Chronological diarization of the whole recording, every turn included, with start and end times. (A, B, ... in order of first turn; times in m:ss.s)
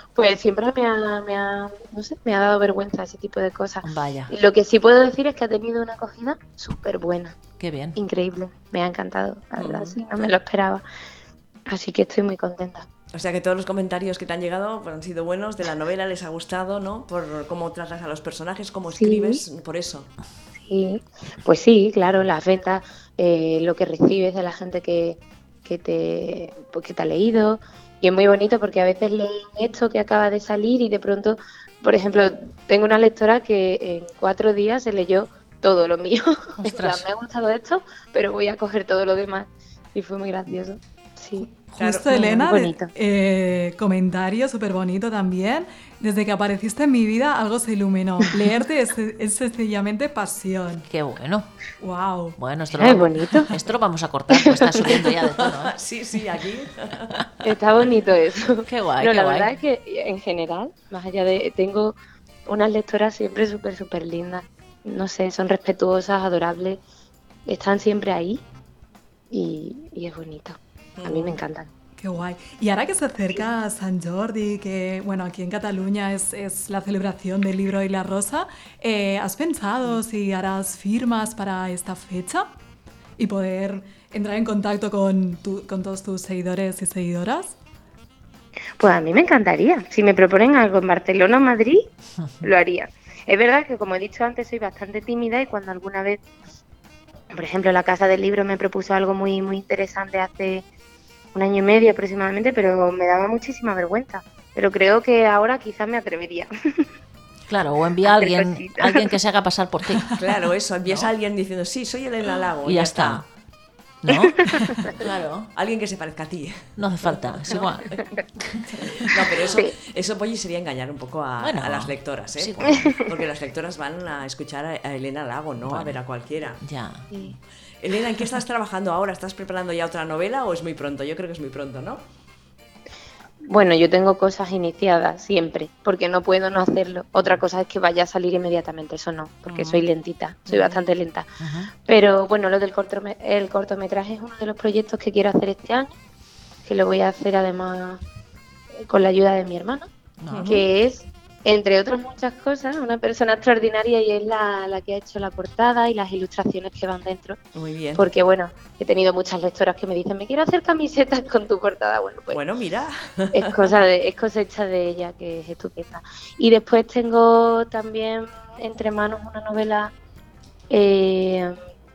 0:00.2-0:07.4 A
0:03.8-0:04.3 B
0:07.6-0:08.0 B
0:08.0-0:10.8 A
0:09.6-0:10.0 C
0:11.7-0:12.9 A
0:13.1-0:20.1 C
0:18.9-0:19.4 A
0:20.6-0:41.5 A
0:36.6-0:37.0 B
0:41.7-0:50.9 D
0:41.8-0:42.1 C
0:42.1-0:42.9 A
0:50.8-0:51.5 B
0:51.8-0:52.4 D
0:52.4-0:55.8 B
0:52.8-0:53.6 A
0:54.3-0:55.0 A
0:55.0-0:57.3 C
0:57.4-1:02.0 A
0:58.7-0:59.5 B
1:02.5-1:06.8 A
1:07.5-1:08.4 A
1:09.3-1:11.7 A
1:11.0-1:11.4 C
1:12.0-1:22.5 D
1:23.2-1:27.6 D
1:28.8-1:31.9 A
1:32.4-1:36.2 A
1:37.3-1:40.6 A
1:41.3-1:46.9 A
1:47.5-1:50.1 B
1:48.0-1:49.1 A
1:50.2-1:53.2 C
1:50.9-1:51.1 B
1:52.6-1:53.3 B
1:54.0-1:55.5 B
1:54.3-1:54.9 A
1:55.5-1:58.1 C
1:56.8-1:59.2 B
1:59.0-2:06.6 C
1:59.4-1:59.7 A
2:01.4-2:03.0 B
2:02.6-2:03.0 A
2:05.6-2:06.0 B
2:06.6-2:07.1 B
2:07.8-2:12.0 C
2:13.5-2:21.3 A
2:19.5-2:19.8 C
2:20.5-2:20.7 C
2:21.4-2:21.7 B
2:21.8-2:26.0 A
2:26.6-2:28.0 A
2:28.8-2:29.9 A
2:30.2-2:30.5 B
2:30.3-2:30.7 C
2:30.4-2:37.4 A
2:37.6-2:38.1 C
2:37.9-2:42.4 A
2:42.3-2:43.4 C
2:43.3-2:49.9 A
2:50.7-2:51.6 A